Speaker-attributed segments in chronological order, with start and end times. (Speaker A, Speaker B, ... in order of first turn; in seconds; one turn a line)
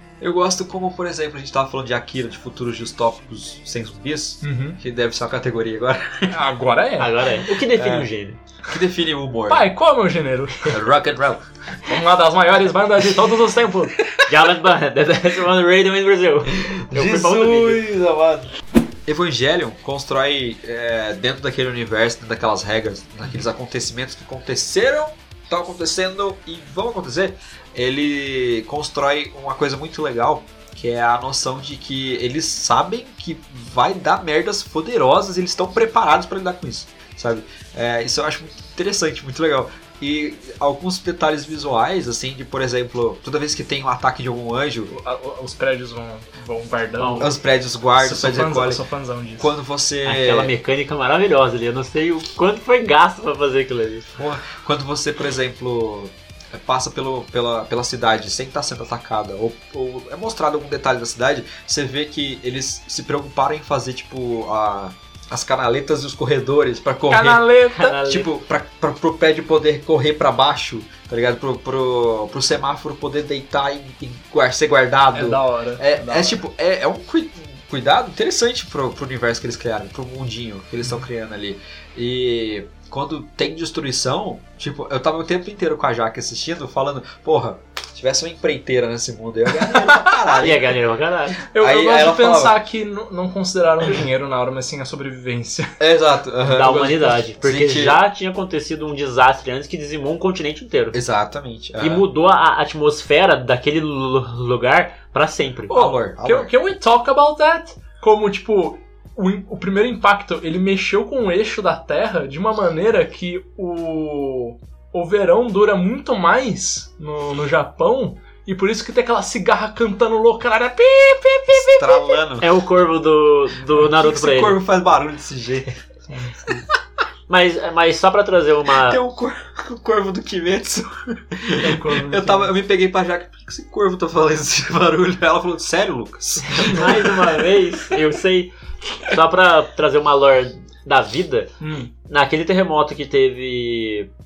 Speaker A: 0.2-6.4
Speaker B: 4.4-4.8
Speaker B: 6.3-7.2
Speaker C: 7.0-8.4
Speaker A: 7.7-8.1
Speaker A: 8.7-9.7
Speaker B: 9.5-10.8
Speaker A: 10.7-11.4
Speaker B: 11.8-14.0
Speaker C: 14.2-17.9
Speaker A: 16.6-18.5
Speaker A: 19.1-44.9
Speaker B: 44.9-47.4
Speaker C: 47.0-47.3
Speaker A: 47.2-48.8
Speaker B: 47.9-49.5
Speaker A: 49.4-50.5
Speaker C: 50.0-54.1
Speaker A: 54.2-67.5
Speaker B: 67.1-68.0
Speaker C: 67.7-68.3
Speaker A: 68.0-90.8
Speaker B: 75.1-76.4
Speaker B: 89.6-90.2
Speaker C: 90.3-91.4
Speaker B: 91.5-95.8
Speaker A: 91.5-92.6
Speaker A: 95.8-98.0
Speaker C: 96.5-101.0
Speaker A: 100.9-102.0
Speaker C: 101.8-105.7
Speaker A: 105.7-106.5
Speaker B: 105.7-122.2
Speaker A: 121.5-122.5
Speaker C: 122.4-124.6
Speaker A: 123.7-125.7
Speaker B: 126.1-126.6
Speaker C: 127.3-129.0
Speaker A: 128.7-137.6
Speaker B: 131.6-132.5
Speaker B: 136.5-136.8
Speaker C: 136.6-138.5
Speaker C: 139.0-141.5
Speaker B: 141.6-141.9
Speaker C: 142.1-144.1